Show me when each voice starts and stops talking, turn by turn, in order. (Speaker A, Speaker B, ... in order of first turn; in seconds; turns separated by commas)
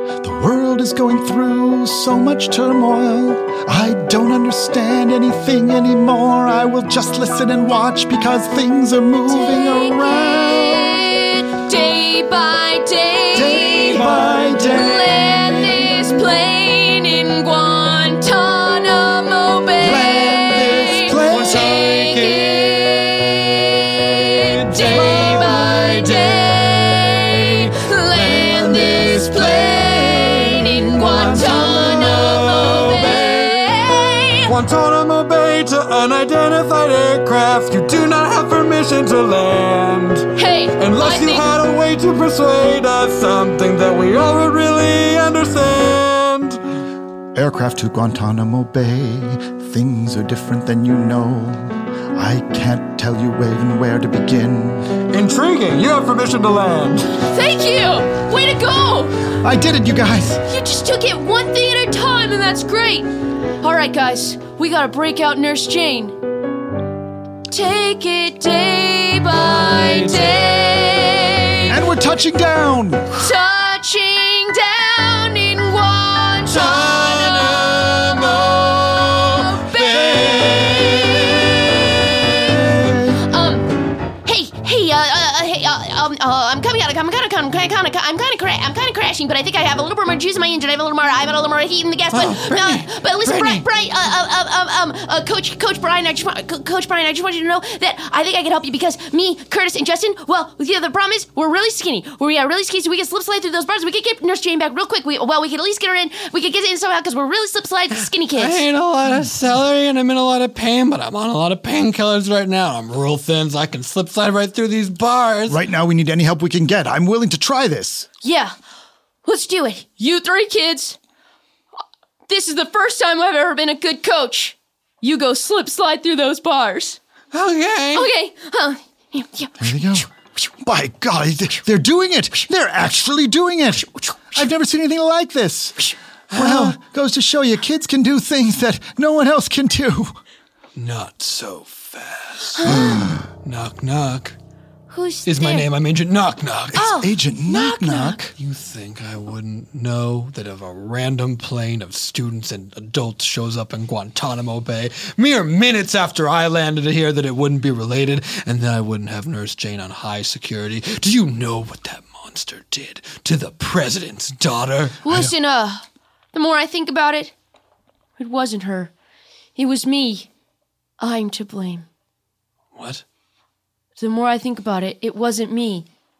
Speaker A: 0.2-11.1, Speaker B: 9.3-14.0, Speaker A: 13.3-15.9, Speaker C: 13.9-15.1, Speaker B: 14.6-34.5, Speaker A: 19.8-21.6, Speaker C: 21.3-33.9, Speaker C: 34.4-46.6, Speaker B: 40.4-41.4, Speaker A: 47.3-54.9, Speaker C: 55.1-57.1, Speaker B: 57.1-59.1, Speaker A: 59.4-60.4, Speaker B: 60.5-63.1, Speaker B: 63.6-66.2, Speaker B: 67.5-71.7, Speaker C: 69.3-71.7, Speaker A: 71.7-73.3, Speaker B: 73.2-82.5, Speaker C: 76.5-83.1, Speaker B: 83.2-83.7, Speaker B: 84.2-108.6, Speaker C: 92.1-93.6, Speaker C: 108.3-115.6, Speaker A: 115.5-118.1, Speaker B: 118.2-118.5, Speaker B: 119.2-121.0, Speaker B: 122.3-127.0, Speaker C: 127.3-128.1, Speaker B: 127.9-130.1, Speaker A: 129.6-130.1, Speaker A: 130.6-140.2, Speaker C: 136.3-136.7, Speaker C: 140.8-144.3, Speaker B: 142.6-143.0, Speaker A: 142.6-143.2, Speaker B: 144.9-145.7, Speaker C: 145.2-146.9, Speaker B: 146.7-148.2, Speaker A: 146.8-148.3, Speaker C: 148.4-165.0, Speaker B: 165.0-167.3, Speaker A: 165.1-165.3, Speaker B: 168.2-168.9, Speaker B: 169.6-170.3, Speaker B: 171.0-171.8, Speaker C: 172.7-173.0, Speaker B: 174.0-175.8